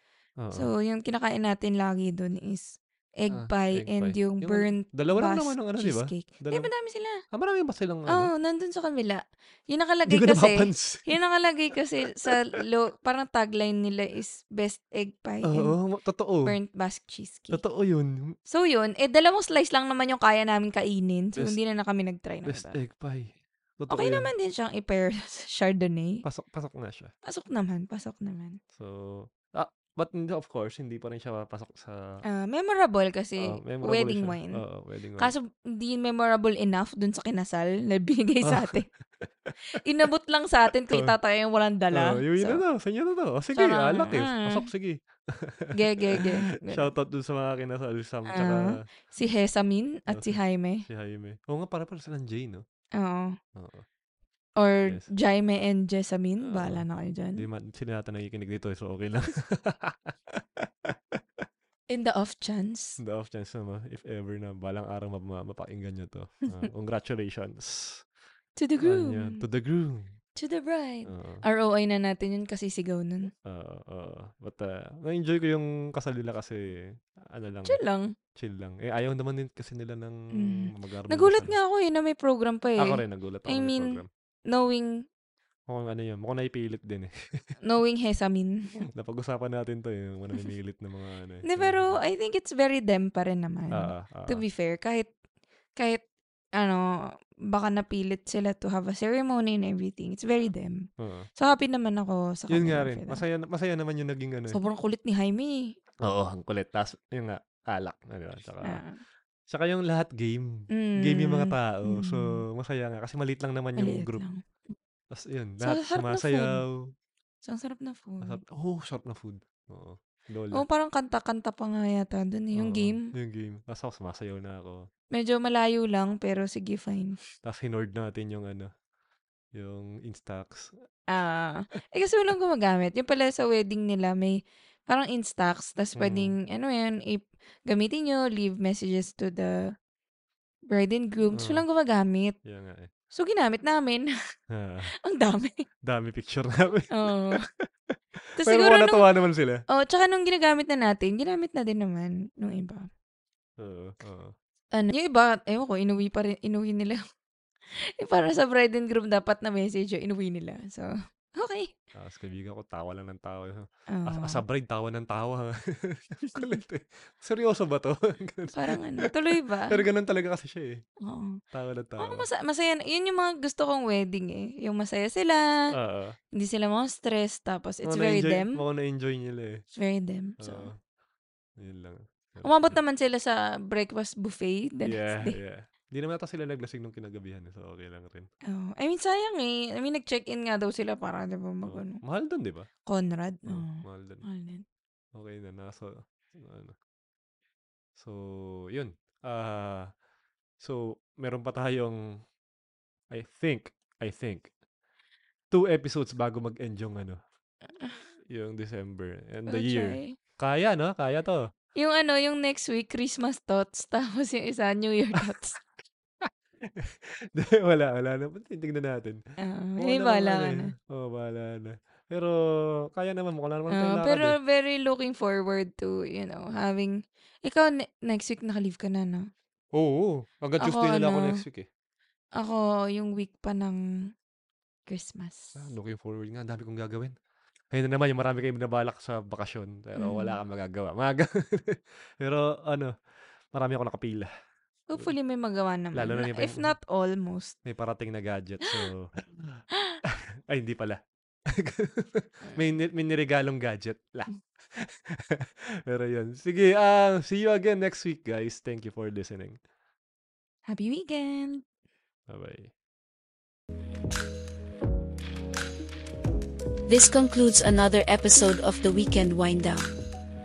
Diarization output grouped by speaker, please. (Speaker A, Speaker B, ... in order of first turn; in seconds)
Speaker A: 0.4-0.7, 3.3-6.7, 7.3-8.3, 10.1-11.2, 12.2-12.6, 15.4-16.6, 17.5-18.4, 22.5-24.3, 26.2-27.1, 28.8-32.2, 33.4-35.3, 38.5-39.5, 40.9-41.2, 41.9-48.8, 50.1-52.6, 53.6-53.9, 56.4-56.9, 57.4-61.5, 63.0-68.0, 68.8-70.1, 71.1-71.4, 73.5-77.8, 78.3-81.6, 82.8-84.1, 85.7-87.1, 88.9-92.0, 93.7-94.4, 101.0-101.3, 102.5-104.6, 106.0-108.8, 109.5-114.2, 115.1-116.9, 118.2-120.7, 122.6-124.9, 127.4-128.7, 129.6-130.7, 136.0-136.4, 141.4-141.7, 142.4-142.9, 144.5-144.9, 145.8-149.6, 153.6-154.3, 161.9-169.1, 169.7-170.8, 171.5-172.3, 175.7-176.2, 177.8-179.6, 180.4-180.8, 181.6-182.8, 184.9-188.3, 191.7-192.7, 193.5-194.2, 195.2-196.8, 198.0-199.9, 200.6-202.2, 203.1-204.5, 205.5-207.2, 208.3-211.5, 216.2-219.2, 219.8-224.4, 229.7-231.7, 235.6-237.1, 237.7-242.9, 243.5-244.3, 245.9-246.8, 247.7-259.6, 262.3-262.7
Speaker B: 0.5-7.2, 8.1-15.8, 16.5-17.6, 18.5-22.8, 23.9-26.2, 27.3-28.6, 32.3-34.6, 35.2-38.9, 39.7-42.6, 43.6-44.7, 45.7-46.9, 48.3-50.9, 53.0-53.4, 54.6-57.5, 61.9-63.0, 68.6-69.5, 70.4-73.3, 77.7-78.1, 80.3-84.9, 87.7-88.6, 91.5-95.1, 95.8-96.0, 96.6-96.9, 97.5-100.8, 101.4-103.2, 104.5-105.6, 108.6-109.0, 110.7-112.4, 113.8-114.4, 115.6-116.6, 117.4-118.4, 120.5-123.1, 125.1-127.2, 131.1-139.7, 140.7-142.4, 143.1-144.1, 145.0-145.7, 146.9-147.4, 148.4-149.1, 149.7-152.9, 154.8-157.0, 158.0-161.7, 163.9-164.4, 166.3-166.6, 168.5-169.8, 171.0-171.4, 172.0-175.7, 176.3-178.6, 179.7-180.7, 182.4-185.4, 188.5-192.0, 192.9-194.6, 209.5-210.2, 211.8-215.7, 219.4-220.7, 223.7-229.3, 230.6-231.4, 232.4-233.8, 234.9-235.6, 240.0-240.4, 244.9-247.6, 260.7-261.6
Speaker C: 266.9-269.9